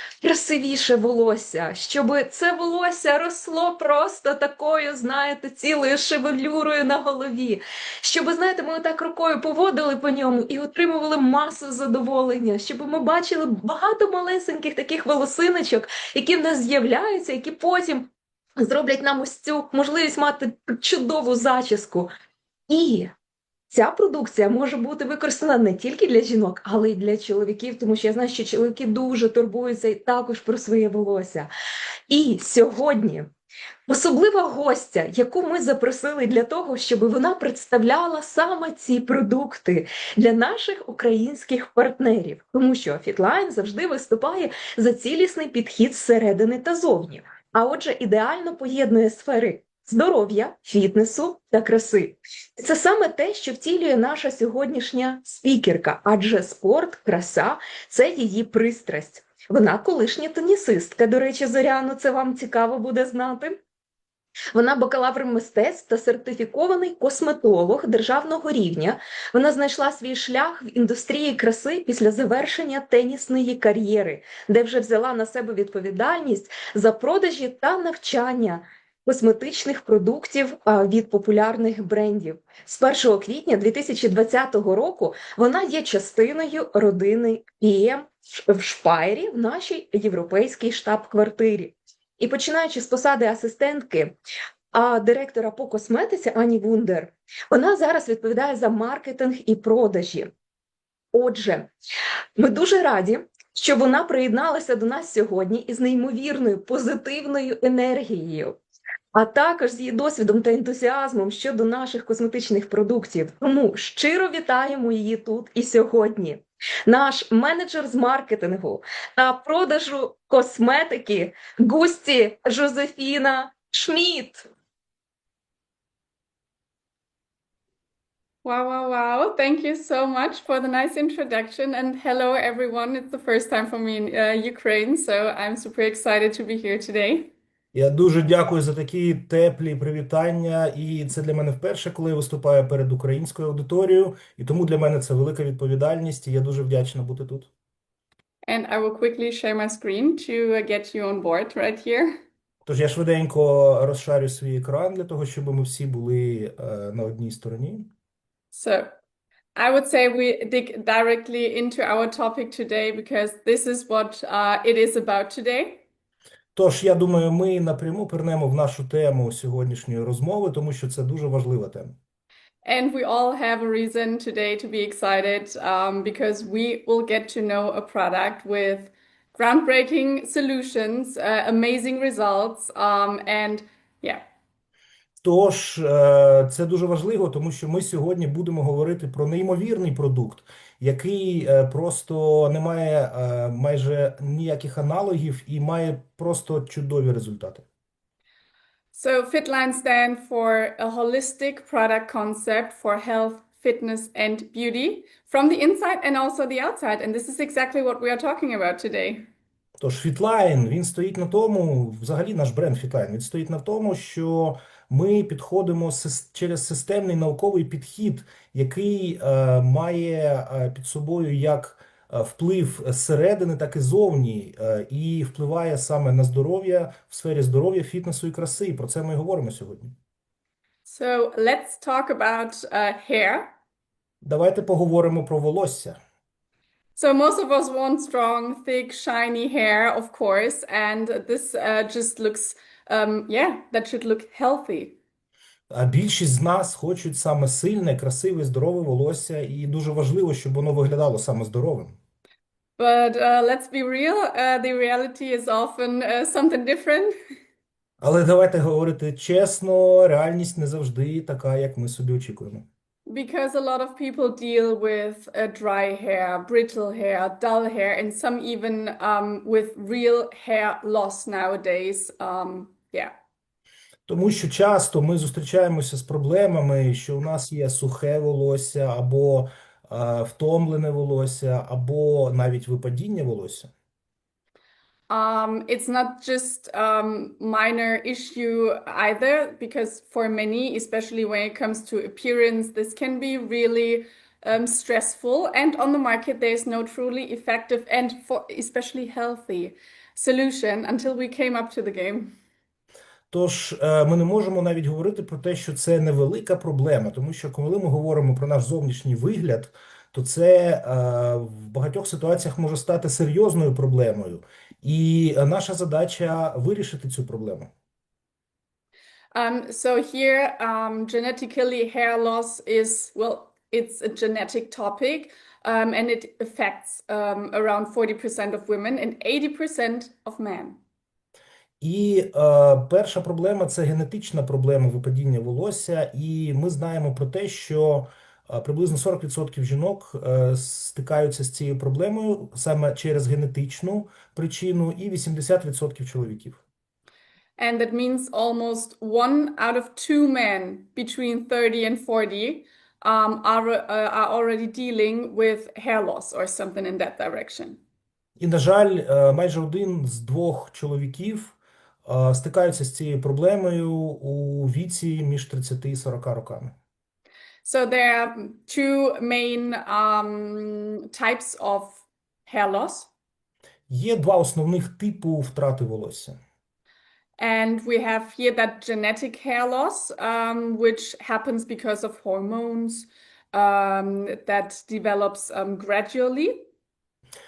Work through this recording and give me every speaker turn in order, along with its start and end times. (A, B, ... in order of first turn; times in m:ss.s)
0:00.2-0:22.1 A
0:22.7-0:23.1 A
0:23.7-0:31.5 A
0:32.1-0:33.3 A
0:33.9-1:03.6 A
1:04.5-1:34.2 A
1:34.7-1:40.3 A
1:41.1-1:41.7 A
1:42.4-1:48.6 A
1:49.1-2:04.5 A
2:08.4-2:17.3 B
2:17.7-2:27.5 C
2:28.4-2:32.2 B
2:32.6-2:37.9 C
2:38.5-2:38.9 B
2:39.6-2:45.8 B
2:46.6-2:52.0 C
2:52.6-3:04.2 B
3:05.2-3:17.6 C
3:18.9-3:29.3 B
3:29.8-3:50.0 C
3:50.9-3:53.6 B
3:54.2-3:56.0 C
3:57.0-4:05.0 B
4:05.7-4:12.0 C
4:12.8-4:17.1 B
4:18.0-4:22.7 C
4:23.1-4:33.1 B
4:34.1-4:43.7 C
4:45.1-5:02.3 B
5:03.3-5:17.7 C
5:19.3-5:30.8 B
5:31.8-5:46.6 C
5:47.6-5:57.8 B
5:58.4-6:01.6 C
6:02.1-6:06.8 C
6:07.6-6:13.1 B
6:13.9-6:16.4 C
6:17.4-6:26.7 B